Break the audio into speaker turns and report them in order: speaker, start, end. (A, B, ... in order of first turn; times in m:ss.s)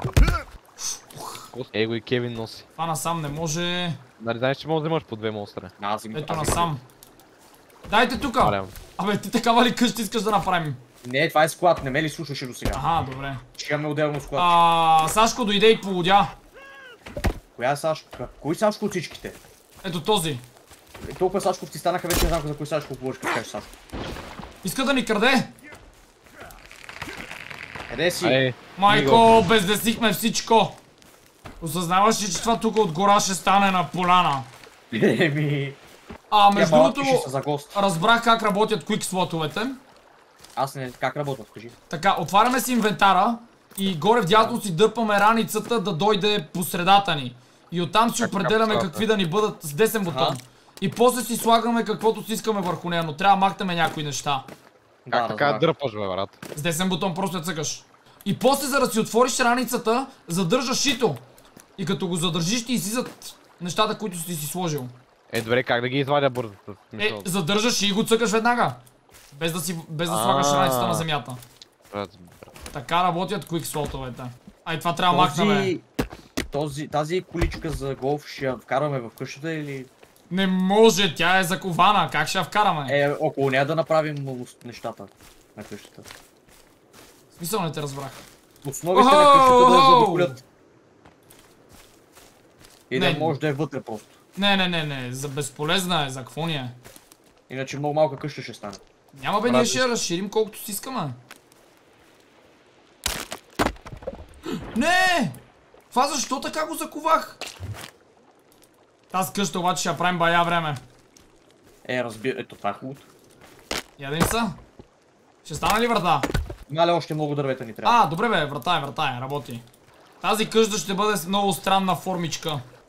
0:00.8-0:01.5 A
0:01.5-0:02.6 B
0:02.8-0:04.0 A
0:04.2-0:05.7 B
0:05.8-0:06.7 C
0:06.1-0:06.8 A
0:07.9-0:10.8 A
0:08.4-0:08.7 B
0:11.0-0:12.8 C
0:12.7-0:13.4 A
0:13.6-0:14.6 C
0:14.4-0:16.4 A
0:17.6-0:19.4 C
0:19.8-0:20.4 A
0:21.0-0:23.7 C
0:24.6-0:25.5 A
0:27.9-0:29.2 C
0:28.2-0:28.6 B
0:28.8-0:30.8 A
0:31.6-0:34.5 A
0:34.9-0:35.8 C
0:36.3-0:39.8 A
0:36.5-0:37.8 C
0:40.6-0:41.7 C
0:41.9-0:54.5 A
0:48.2-0:49.1 B
0:50.1-0:50.4 C
0:55.0-0:55.7 C
0:55.1-0:56.4 B
0:56.5-1:01.2 A
1:01.8-1:04.9 A
1:05.3-1:07.3 B
1:07.0-1:08.8 A
1:09.3-1:11.4 A
1:10.1-1:11.0 B
1:11.9-1:12.5 B
1:12.7-1:15.7 A
1:15.1-1:15.8 C
1:16.5-1:19.9 C
1:20.3-1:23.0 A
1:22.9-1:26.0 C
1:27.4-1:28.2 A
1:28.6-1:30.4 C
1:28.9-1:30.3 A
1:32.9-1:34.1 C
1:32.9-1:33.4 A
1:34.4-1:36.8 A
1:37.5-1:38.8 C
1:39.1-1:41.2 A
1:39.4-1:39.8 C
1:44.7-1:45.4 A
1:45.9-1:47.4 A
1:49.1-1:50.8 A
1:51.8-1:53.1 C
1:54.0-1:54.6 A
1:55.4-1:56.3 A
1:56.7-1:58.0 C
1:57.8-1:59.6 A
2:00.2-2:02.6 A